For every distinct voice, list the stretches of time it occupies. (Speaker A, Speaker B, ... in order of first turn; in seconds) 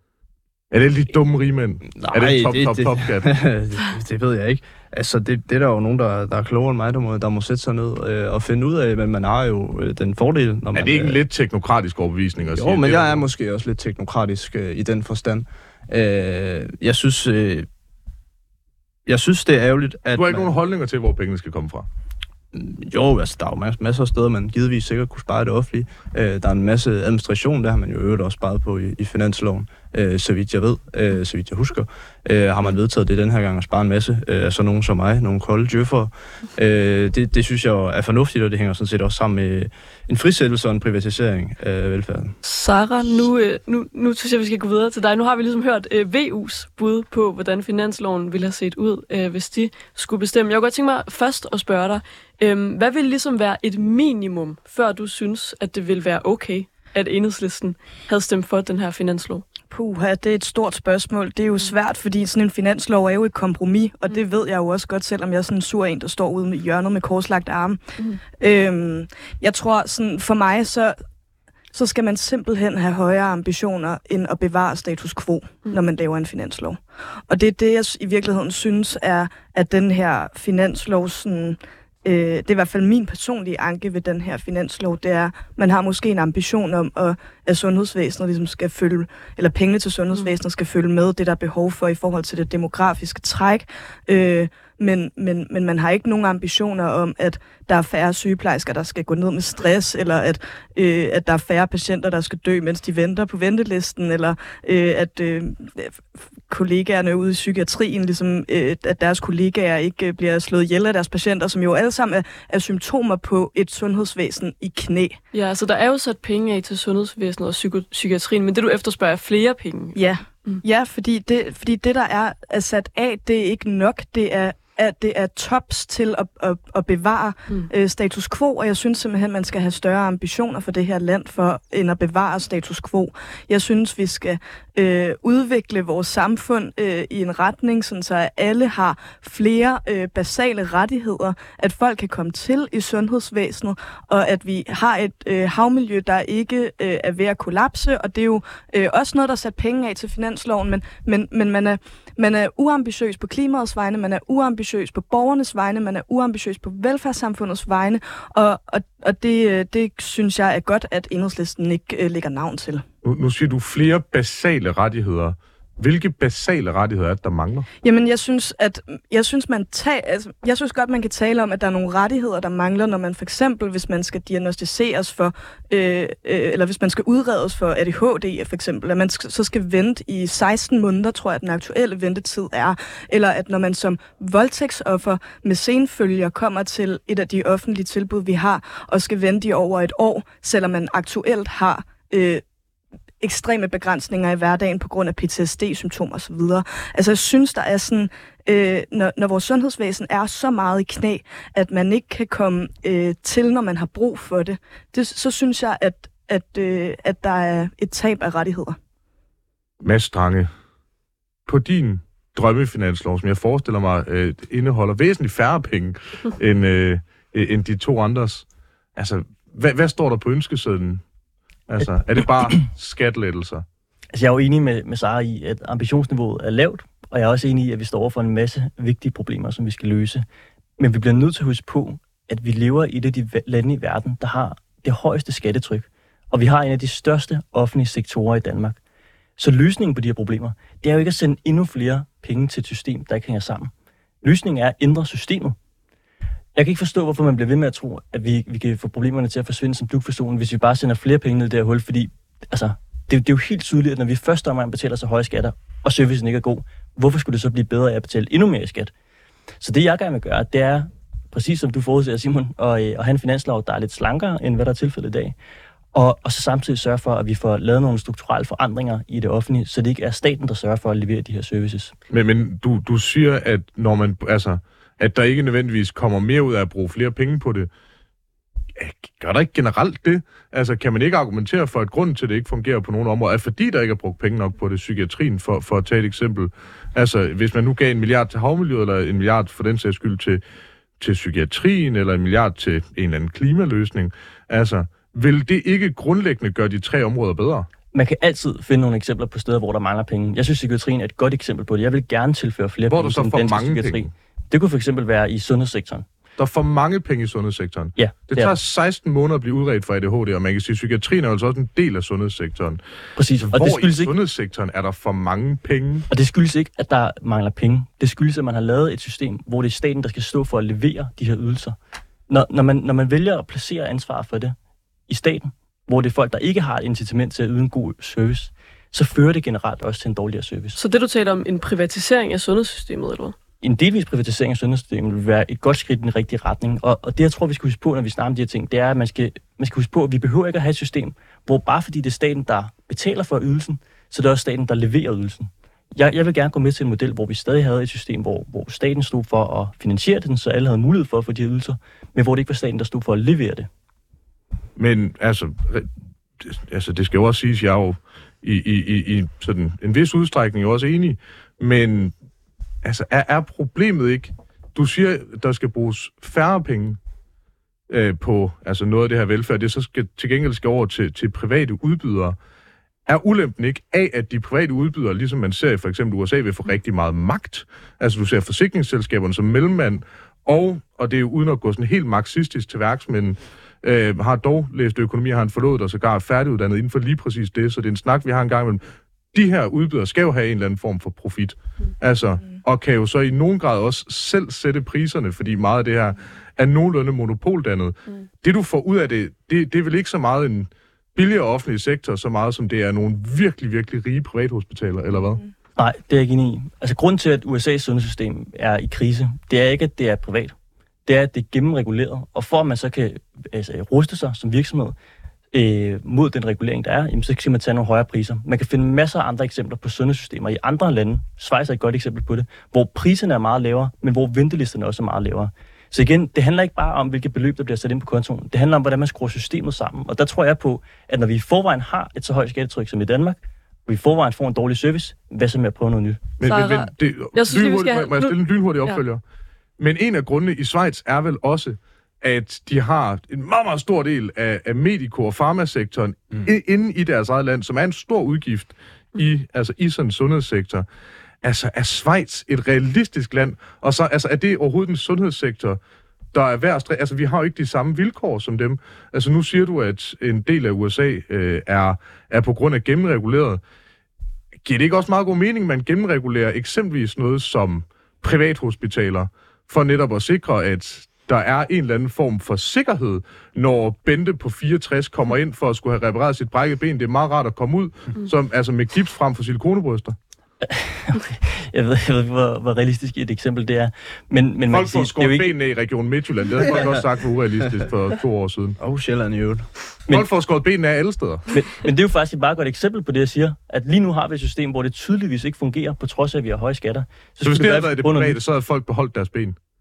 Speaker A: 0.7-3.3, 10.7-13.2, 20.1-21.9, 163.0-167.7, 209.8-210.5, 211.4-218.4, 218.9-221.0, 221.7-223.6, 272.1-277.7, 278.8-290.4, 291.0-297.7, 302.9-304.1, 306.4-312.8, 313.4-316.1, 354.8-355.9, 356.4-362.1, 362.8-367.0, 367.9-372.4, 373.1-388.8, 389.3-405.4, 436.4-439.2, 439.8-450.9, 451.4-455.8, 456.3-463.6, 464.6-480.1, 484.7-488.8, 490.1-491.5, 497.4-499.6
Speaker B: 1.9-11.2, 12.5-17.7, 19.1-20.5, 22.5-42.4, 488.8-489.7
Speaker C: 42.4-59.4, 115.3-120.6, 330.8-333.4, 436.4-439.0
Speaker D: 59.7-67.8, 68.4-71.0, 71.7-76.8, 77.3-115.2, 119.9-162.8, 167.8-192.4, 193.2-208.8
Speaker E: 224.1-230.2, 230.8-238.8, 239.4-243.7, 244.2-245.6, 246.6-258.9, 259.6-265.3, 265.9-271.9, 297.9-306.1, 307.9-308.6, 313.1-314.1, 316.1-321.8, 322.3-324.5, 325.1-330.8, 333.6-353.7, 405.8-410.5, 411.1-414.9, 415.5-436.2, 480.6-485.5, 491.5-498.4